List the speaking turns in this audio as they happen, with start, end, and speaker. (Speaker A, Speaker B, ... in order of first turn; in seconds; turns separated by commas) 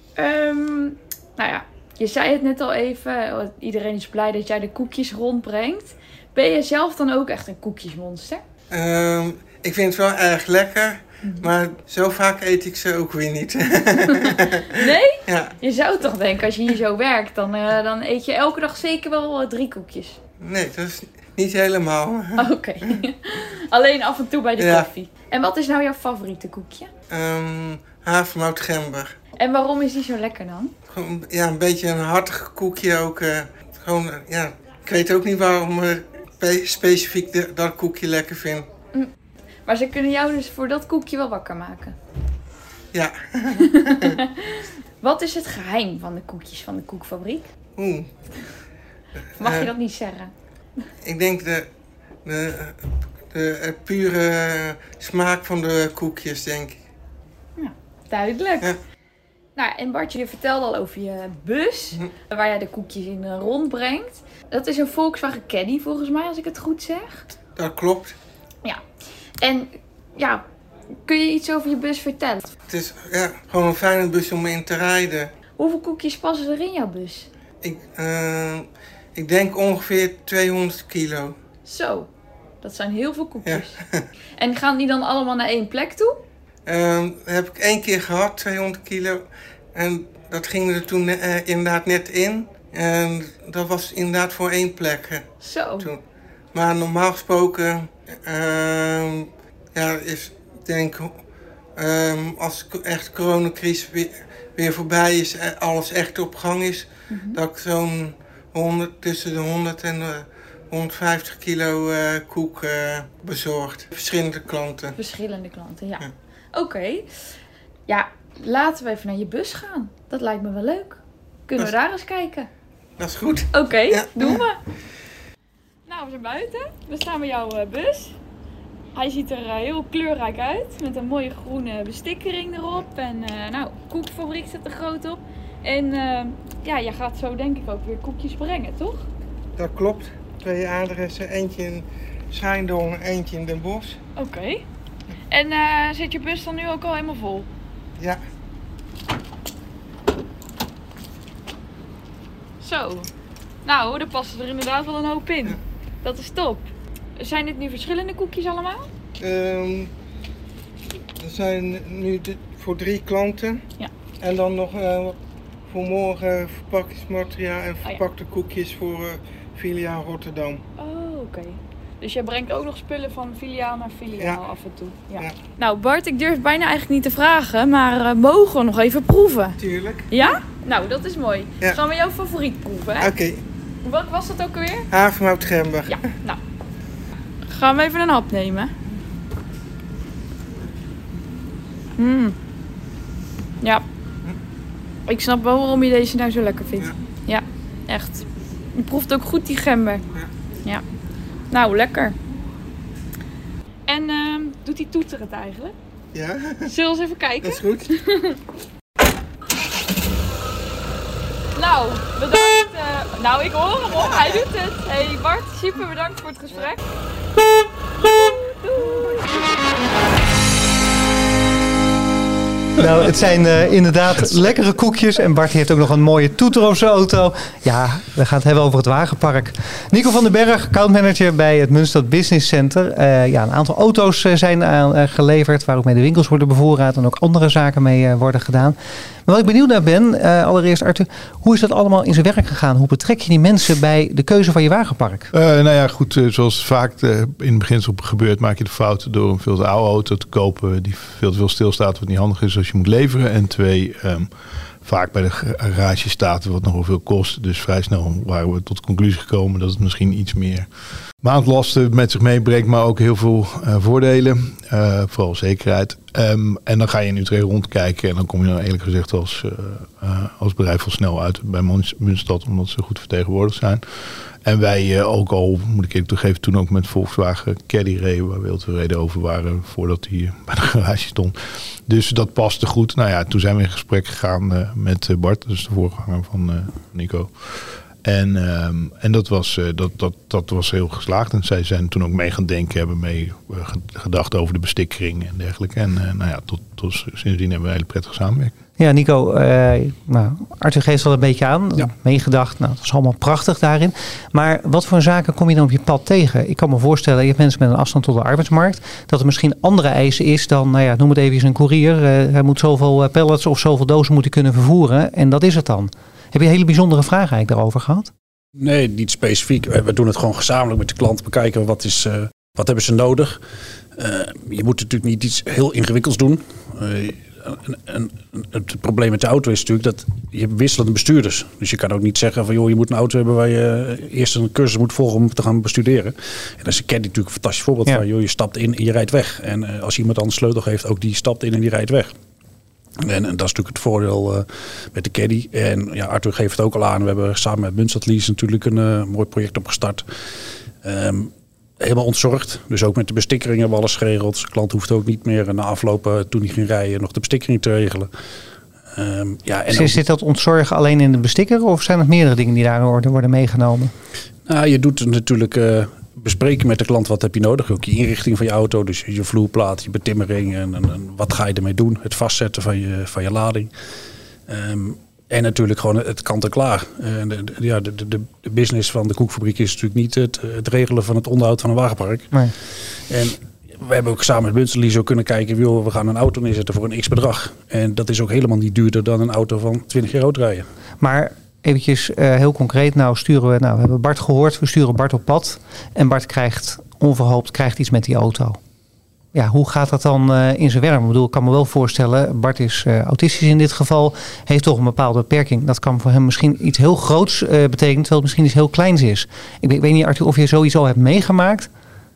Speaker A: 0.2-8.4, Speaker B: 8.7-15.5, Speaker A: 11.2-11.5, Speaker A: 14.1-20.2, Speaker B: 20.4-22.5, Speaker A: 22.4-26.9, Speaker B: 24.6-24.9, Speaker B: 27.1-29.2, Speaker A: 29.4-30.7, Speaker B: 30.9-38.7, Speaker A: 39.7-42.0, Speaker B: 42.9-44.2, Speaker A: 43.6-47.5, Speaker B: 47.8-48.1, Speaker A: 49.4-50.3, Speaker B: 49.4-49.7, Speaker B: 51.0-51.7, Speaker B: 52.2-52.8, Speaker B: 53.3-56.8, Speaker A: 57.6-58.7, Speaker A: 59.6-67.3, Speaker B: 67.6-68.2, Speaker A: 69.4-70.4, Speaker A: 71.1-72.5, Speaker B: 72.7-75.3, Speaker A: 75.6-77.3, Speaker B: 77.6-81.4, Speaker A: 81.7-82.1, Speaker A: 82.6-83.8, Speaker B: 83.5-84.0, Speaker A: 84.4-86.2, Speaker B: 86.7-89.2, Speaker B: 89.8-95.3, Speaker A: 95.4-95.9, Speaker B: 96.5-101.2, Speaker B: 101.8-115.0, Speaker A: 107.1-107.4, Speaker A: 115.0-117.2, Speaker A: 117.9-122.5, Speaker B: 123.0-124.4, Speaker A: 123.5-124.6, Speaker A: 125.9-128.2, Speaker A: 128.9-139.1, Speaker B: 139.6-144.0, Speaker A: 144.2-144.7, Speaker A: 145.3-147.5, Speaker A: 152.6-153.1, Speaker A: 153.7-158.9, Speaker B: 159.2-159.9, Speaker B: 161.2-163.6, Speaker B: 164.2-165.2, Speaker B: 165.7-170.6, Speaker A: 170.8-179.6, Speaker B: 179.6-180.1, Speaker A: 180.1-183.1, Speaker B: 183.0-183.4, Speaker A: 183.8-184.9, Speaker B: 184.9-186.0, Speaker A: 185.9-186.4, Speaker A: 187.5-188.7, Speaker A: 192.0-192.4, Speaker A: 195.1-200.1, Speaker A: 201.5-202.2, Speaker A: 203.9-205.8, Speaker B: 206.1-206.7, Speaker A: 206.7-208.4, Speaker B: 207.4-207.9, Speaker A: 211.6-216.8, Speaker A: 218.0-219.4, Speaker C: 222.8-245.3, Speaker D: 245.3-254.3, Speaker D: 254.8-260.7, Speaker D: 261.2-298.6, Speaker C: 298.8-318.1, Speaker E: 318.6-323.4, Speaker E: 324.0-342.1, Speaker E: 343.0-358.1, Speaker E: 358.9-360.0, Speaker C: 359.7-363.9, Speaker E: 364.5-373.7, Speaker E: 374.5-390.7, Speaker C: 391.0-398.6, Speaker C: 399.3-411.7